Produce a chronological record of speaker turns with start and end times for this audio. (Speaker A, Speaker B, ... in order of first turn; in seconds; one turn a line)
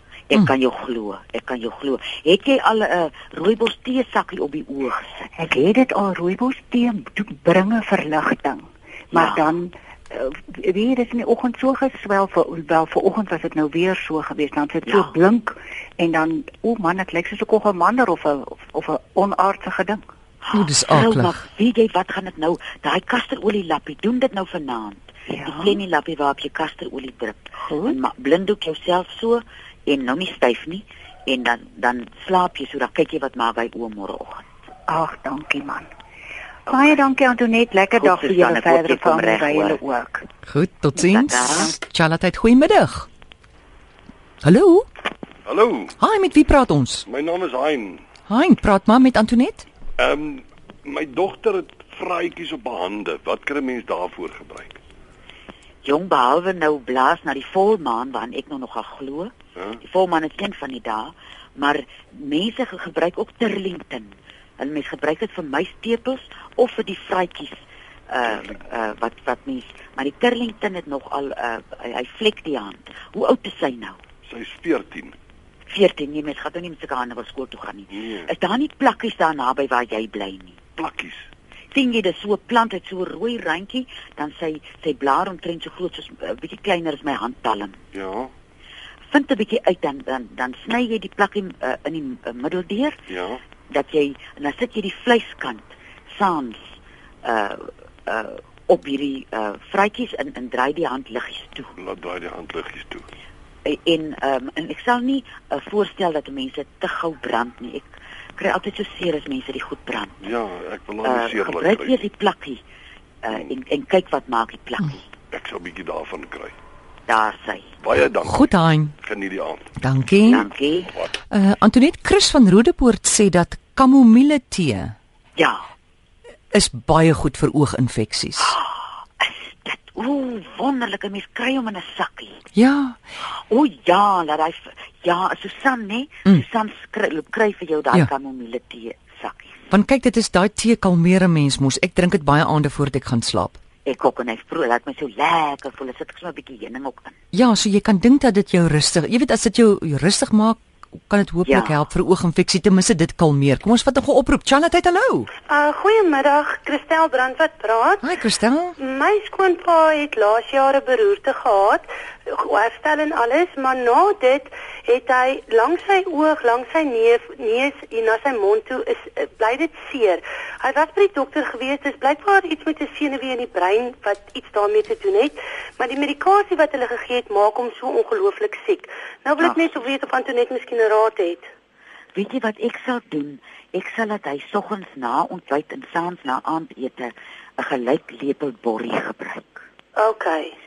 Speaker A: 0.3-5.3
Speaker B: 5.4-20.0
Speaker A: 9.1-9.5
Speaker A: 14.9-15.1
Speaker A: 20.4-34.5
Speaker C: 20.5-21.4
Speaker B: 25.3-25.7
Speaker B: 27.7-27.9
Speaker B: 34.9-35.9
Speaker A: 36.7-37.0
Speaker B: 36.7-40.3
Speaker A: 38.0-39.8
Speaker C: 40.5-43.1
Speaker A: 41.0-41.8
Speaker C: 44.4-44.9
Speaker D: 45.5-45.9
Speaker C: 46.0-47.0
Speaker D: 47.1-48.0
Speaker C: 48.3-49.6
Speaker D: 50.0-54.8
Speaker A: 55.8-74.0
Speaker D: 74.3-75.1
Speaker A: 75.7-80.6
Speaker D: 78.0-78.2
Speaker D: 80.8-81.2
Speaker A: 81.7-87.8
Speaker D: 87.9-88.3
Speaker A: 89.1-92.9
Speaker D: 93.1-93.4
Speaker A: 93.7-96.6
Speaker A: 97.2-101.7
Speaker D: 101.8-103.0
Speaker A: 103.7-110.2
Speaker D: 110.2-112.0
Speaker A: 111.0-112.6
Speaker A: 113.2-115.0
Speaker D: 115.3-116.5
Speaker A: 117.1-117.7
Speaker D: 117.8-119.6
Speaker C: 118.2-118.9
Speaker C: 119.8-120.4
Speaker A: 120.2-120.9
Speaker C: 121.3-124.9
Speaker A: 125.4-125.6
Speaker C: 126.5-128.5
Speaker A: 128.4-132.4
Speaker C: 132.6-133.0
Speaker A: 133.5-139.7
Speaker C: 139.7-143.6
Speaker A: 143.8-147.2
Speaker C: 147.3-155.3
Speaker A: 151.4-151.7
Speaker E: 155.5-158.0
Speaker C: 158.0-158.8
Speaker E: 158.8-181.5
Speaker A: 179.4-179.8
Speaker A: 182.2-189.6
Speaker E: 189.9-190.5